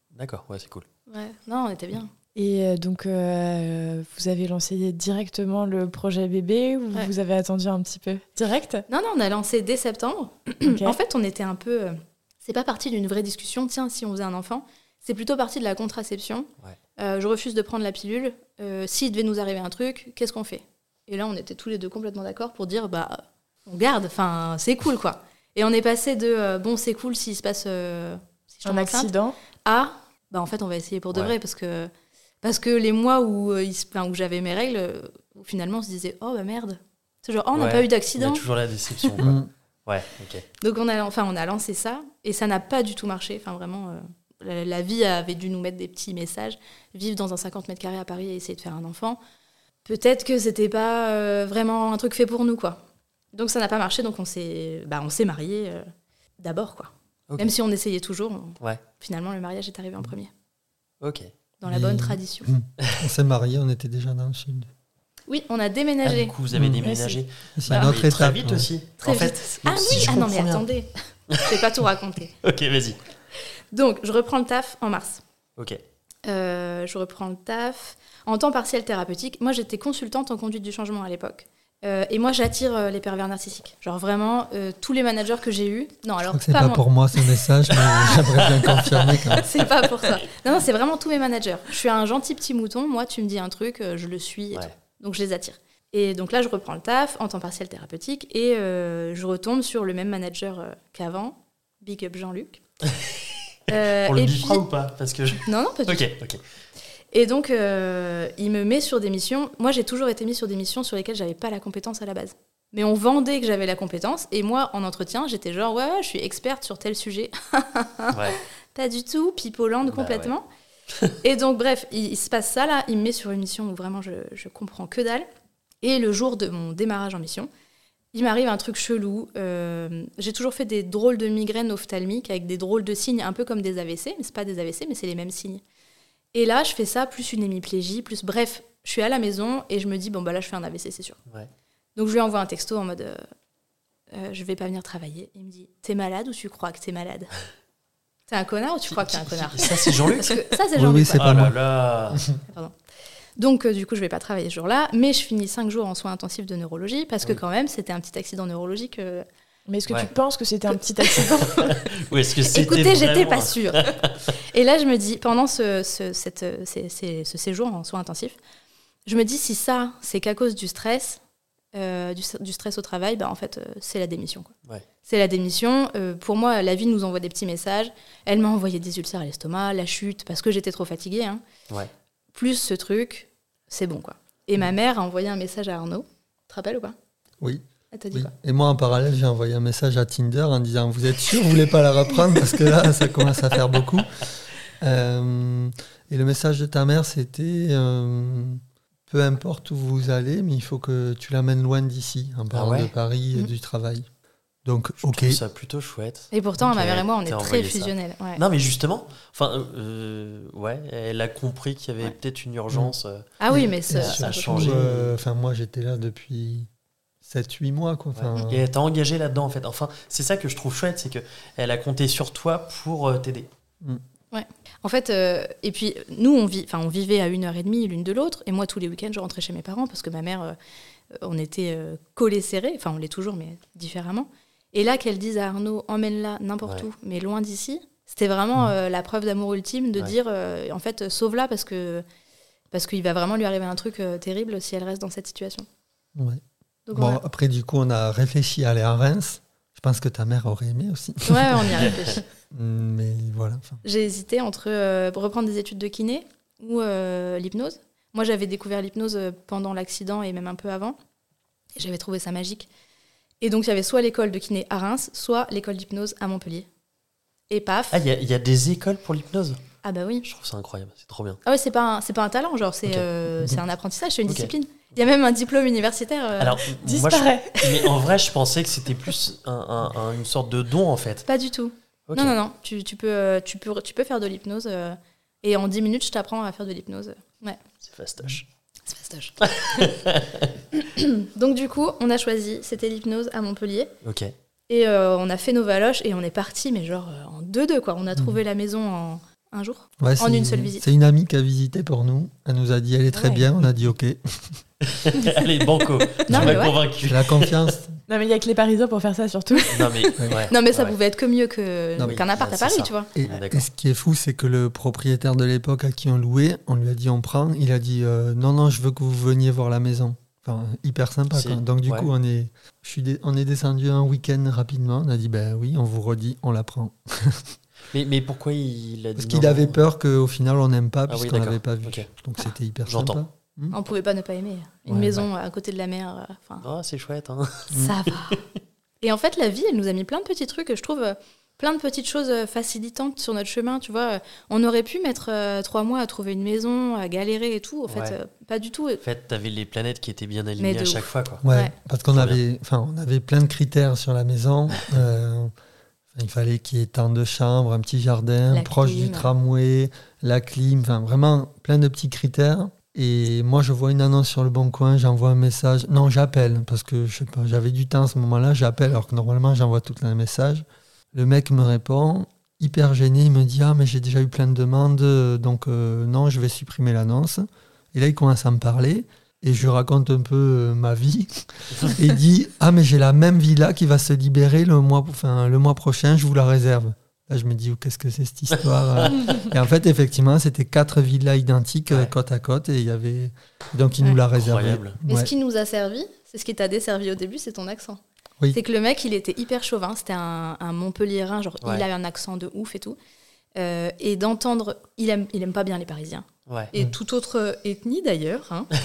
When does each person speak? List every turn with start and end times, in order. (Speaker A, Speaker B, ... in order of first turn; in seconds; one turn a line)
Speaker A: 0.1-0.8
Speaker B: 1.1-2.1
Speaker C: 2.3-8.8
Speaker B: 8.9-29.1
Speaker C: 10.6-11.0
Speaker C: 28.6-29.4
Speaker B: 29.6-31.9
Speaker B: 32.4-38.4
Speaker A: 37.5-40.4
Speaker B: 39.0-39.2
Speaker D: 39.2-39.5
Speaker B: 40.6-49.2
Speaker B: 49.8-52.8
Speaker B: 53.3-55.9
Speaker B: 56.4-60.3
Speaker A: 61.0-61.3
Speaker B: 61.6-62.5
Speaker D: 61.6-64.7
Speaker B: 65.3-66.3
Speaker A: 66.0-70.7
Speaker D: 66.5-66.9
Speaker C: 66.8-67.2
Speaker D: 67.5-68.7
Speaker B: 67.7-68.0
Speaker B: 69.0-72.3
Speaker D: 69.9-70.2
Speaker A: 71.3-71.6
Speaker A: 72.4-73.0
Speaker B: 73.7-75.2
Speaker B: 76.2-86.8
Speaker D: 86.2-89.5
Speaker A: 88.5-89.3
Speaker B: 89.3-102.6
Speaker B: 103.7-104.6
Speaker A: 103.8-106.4
Speaker B: 105.4-106.1
Speaker B: 107.1-120.5
Speaker A: 118.1-118.4
Speaker A: 119.8-120.3
Speaker B: 121.2-125.3
Speaker B: 125.8-127.5
Speaker B: 128.1-135.6
Speaker B: 136.3-141.2
Speaker B: 141.9-143.2
Speaker B: 144.1-147.3
Speaker B: 148.3-151.4
Speaker A: 148.9-150.5
Speaker D: 150.7-151.6
Speaker A: 151.1-152.2
Speaker B: 152.5-152.7
Speaker B: 153.4-159.2
Speaker C: 159.7-161.8
Speaker A: 161.5-164.2
Speaker B: 162.4-163.9
Speaker B: 164.5-168.4
Speaker B: 169.1-171.2
Speaker B: 171.7-174.5
Speaker B: 175.1-181.4
Speaker B: 182.3-186.9
Speaker D: 187.4-194.3
Speaker B: 187.9-188.3
Speaker D: 194.8-204.1
Speaker A: 202.5-202.9
Speaker D: 204.6-205.4
Speaker A: 205.0-215.2
Speaker B: 206.3-208.4
Speaker B: 213.4-214.8
Speaker D: 213.5-216.7
Speaker D: 217.2-218.7
Speaker A: 218.1-223.5
Speaker B: 224.3-230.6
Speaker B: 231.1-242.0
Speaker B: 242.7-245.7
Speaker D: 246.2-246.4
Speaker B: 246.9-247.2
Speaker D: 246.9-251.9
Speaker B: 251.2-252.2
Speaker D: 252.5-253.8
Speaker B: 253.8-261.0
Speaker B: 261.8-262.7
Speaker B: 263.4-266.7
Speaker B: 267.5-268.0
Speaker A: 267.9-269.6
Speaker B: 269.8-270.2
Speaker A: 270.2-271.4
Speaker B: 271.4-276.6
Speaker A: 274.2-274.5
Speaker A: 276.4-281.3
Speaker C: 276.8-277.6
Speaker B: 281.3-287.6
Speaker A: 282.1-282.4
Speaker A: 287.8-288.4
Speaker B: 288.9-289.9
Speaker A: 289.4-290.5
Speaker B: 290.7-293.9
Speaker A: 294.0-294.3
Speaker B: 294.7-300.8
Speaker D: 300.0-304.6
Speaker C: 303.1-303.4
Speaker A: 304.8-307.7
Speaker B: 306.3-306.8
Speaker D: 306.3-308.0
Speaker C: 308.1-310.1
Speaker A: 309.7-310.9
Speaker D: 310.2-310.4
Speaker B: 310.3-313.1
Speaker A: 312.0-313.7
Speaker D: 313.1-327.6
Speaker A: 321.3-322.1
Speaker A: 327.9-329.8
Speaker D: 329.2-333.8
Speaker A: 331.1-332.1
Speaker A: 332.9-333.2
Speaker B: 333.7-336.6
Speaker D: 334.9-335.3
Speaker A: 336.6-338.4
Speaker D: 337.7-337.9
Speaker B: 337.7-338.4
Speaker B: 339.0-349.0
Speaker A: 347.9-348.2
Speaker A: 349.0-351.4
Speaker B: 350.6-351.7
Speaker D: 351.4-355.5
Speaker A: 352.1-352.4
Speaker D: 356.1-395.3
Speaker B: 358.5-359.3
Speaker A: 391.9-392.1
Speaker A: 394.3-395.0
Speaker B: 395.1-398.0
Speaker B: 398.5-403.0
Speaker B: 403.5-408.7
Speaker A: 406.5-406.7